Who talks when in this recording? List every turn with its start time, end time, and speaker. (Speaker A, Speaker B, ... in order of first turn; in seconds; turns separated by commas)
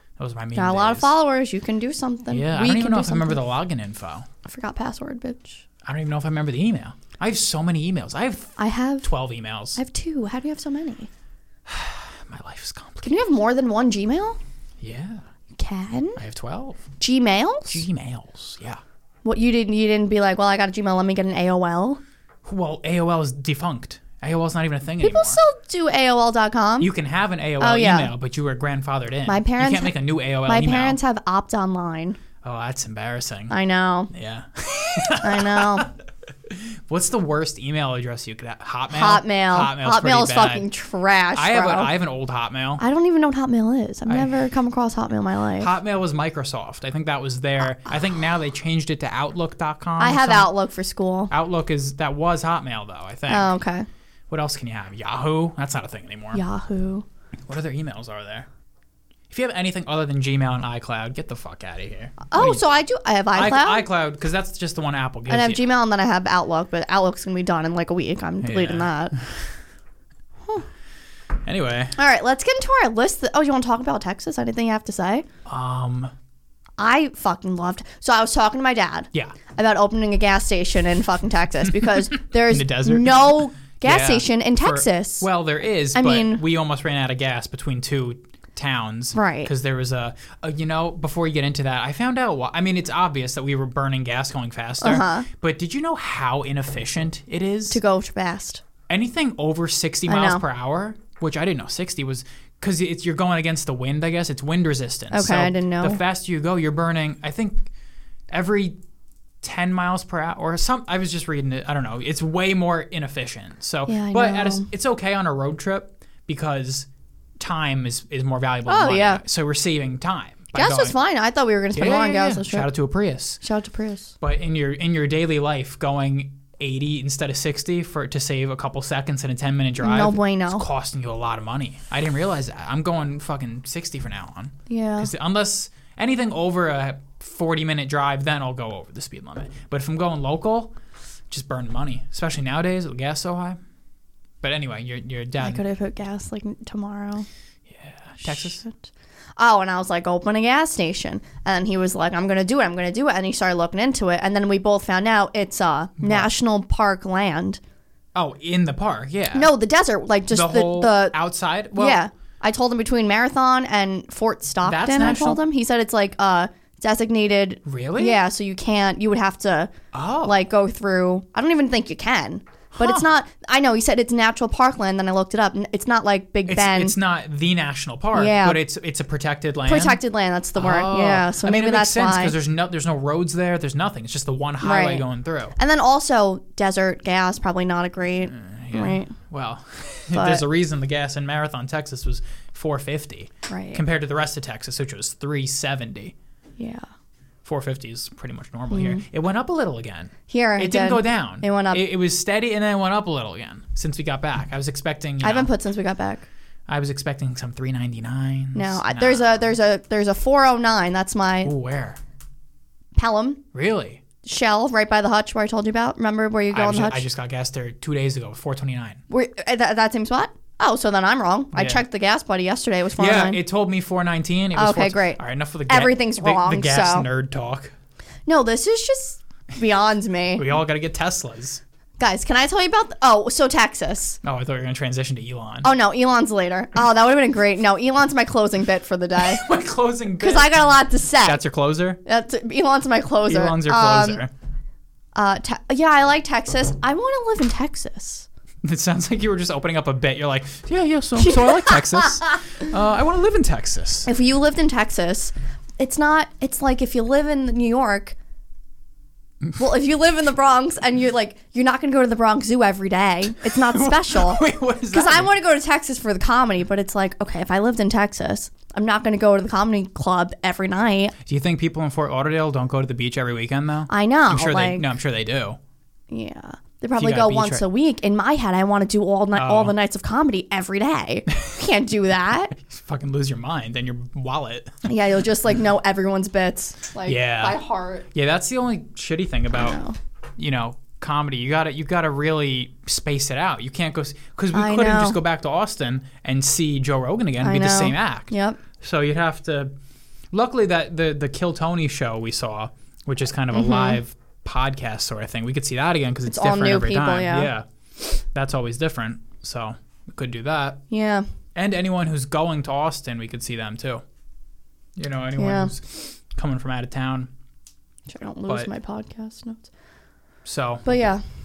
Speaker A: 0.2-1.1, Speaker B: 0.6-3.4, Speaker A: 2.3-4.3, Speaker B: 4.5-5.6, Speaker A: 5.8-9.8, Speaker B: 8.6-9.1, Speaker B: 9.8-11.1, Speaker A: 11.7-13.2, Speaker B: 13.0-14.4, Speaker A: 14.8-15.2, Speaker B: 15.6-16.2, Speaker A: 16.2-16.8, Speaker B: 17.0-17.8, Speaker A: 17.7-18.8, Speaker B: 19.2-22.0, Speaker A: 22.4-25.4, Speaker B: 25.0-26.9, Speaker A: 26.8-31.0, Speaker B: 27.6-28.1, Speaker B: 29.3-32.2, Speaker A: 32.4-33.6, Speaker B: 33.5-34.1, Speaker A: 34.1-40.7, Speaker B: 35.1-35.9, Speaker B: 38.9-41.9, Speaker A: 41.4-42.8, Speaker B: 42.8-45.7, Speaker A: 45.6-50.5, Speaker B: 50.0-51.3, Speaker A: 51.3-53.5, Speaker B: 53.3-53.9, Speaker A: 54.3-56.4, Speaker B: 56.3-57.1, Speaker A: 57.5-58.5, Speaker A: 59.3-62.6, Speaker B: 62.3-63.9, Speaker A: 63.3-65.6, Speaker B: 65.3-69.2, Speaker A: 68.4-69.5, Speaker A: 71.5-72.0, Speaker B: 72.0-75.3, Speaker A: 75.5-76.1, Speaker B: 76.8-85.3, Speaker A: 82.1-97.8, Speaker B: 85.9-86.4, Speaker B: 89.1-89.5, Speaker B: 94.8-95.3, Speaker B: 97.7-98.6, Speaker A: 98.9-107.7, Speaker B: 100.1-100.4, Speaker B: 105.1-106.0, Speaker A: 108.3-108.8, Speaker A: 109.4-116.9, Speaker B: 113.9-114.7, Speaker A: 117.4-121.0, Speaker B: 118.7-119.2, Speaker B: 120.5-122.7, Speaker A: 121.8-123.4, Speaker B: 123.4-124.1, Speaker A: 124.2-140.7, Speaker B: 129.8-130.7, Speaker B: 134.7-135.1, Speaker A: 141.3-143.6, Speaker A: 144.4-145.6, Speaker B: 145.4-147.3, Speaker A: 147.7-148.7, Speaker B: 148.2-157.6, Speaker A: 156.0-156.3, Speaker A: 158.2-159.5, Speaker B: 159.3-161.2, Speaker A: 160.3-162.0, Speaker B: 161.7-169.7, Speaker A: 164.6-165.4, Speaker A: 167.7-168.2, Speaker A: 169.9-170.4, Speaker B: 170.2-177.0, Speaker A: 172.7-173.1, Speaker A: 176.5-180.0, Speaker B: 178.1-178.6, Speaker B: 179.7-182.4, Speaker A: 180.6-185.6, Speaker B: 184.6-185.1, Speaker B: 185.6-189.1, Speaker A: 188.3-196.1, Speaker B: 190.1-190.4, Speaker B: 193.5-193.8, Speaker B: 196.6-196.9, Speaker A: 197.4-205.5, Speaker B: 198.7-199.0, Speaker B: 200.3-201.8, Speaker B: 205.2-206.3, Speaker A: 206.7-209.4, Speaker B: 208.6-211.5, Speaker A: 211.4-212.0, Speaker B: 212.9-213.4, Speaker A: 213.5-214.0, Speaker B: 214.2-217.1, Speaker A: 216.5-219.0, Speaker B: 219.1-223.4, Speaker A: 221.5-221.8, Speaker A: 223.0-227.7, Speaker B: 224.6-227.1, Speaker B: 228.3-230.5, Speaker A: 230.3-231.6, Speaker B: 232.0-234.2, Speaker A: 234.2-235.7, Speaker B: 235.6-239.4, Speaker A: 239.2-240.6, Speaker B: 240.2-241.4, Speaker A: 241.2-242.0, Speaker B: 242.1-244.2, Speaker A: 243.3-244.3, Speaker B: 245.2-248.3, Speaker A: 248.6-254.1, Speaker B: 251.2-252.0, Speaker B: 254.1-258.2, Speaker B: 259.6-271.1, Speaker A: 263.5-265.3, Speaker A: 271.2-275.6, Speaker B: 273.9-274.9, Speaker B: 276.1-282.5, Speaker A: 277.0-277.6, Speaker A: 279.4-279.8, Speaker A: 281.4-281.6, Speaker A: 282.5-284.9, Speaker B: 284.9-288.1, Speaker A: 287.1-287.6, Speaker A: 288.1-289.8, Speaker B: 289.6-290.0, Speaker A: 290.4-299.7, Speaker B: 294.5-295.2, Speaker B: 297.4-298.6, Speaker A: 300.3-310.8, Speaker B: 303.5-304.0, Speaker B: 306.3-307.5, Speaker B: 310.9-311.3, Speaker A: 311.6-314.0, Speaker A: 315.0-317.3, Speaker B: 315.4-315.7, Speaker B: 318.1-319.7, Speaker A: 320.4-320.9, Speaker B: 320.9-321.2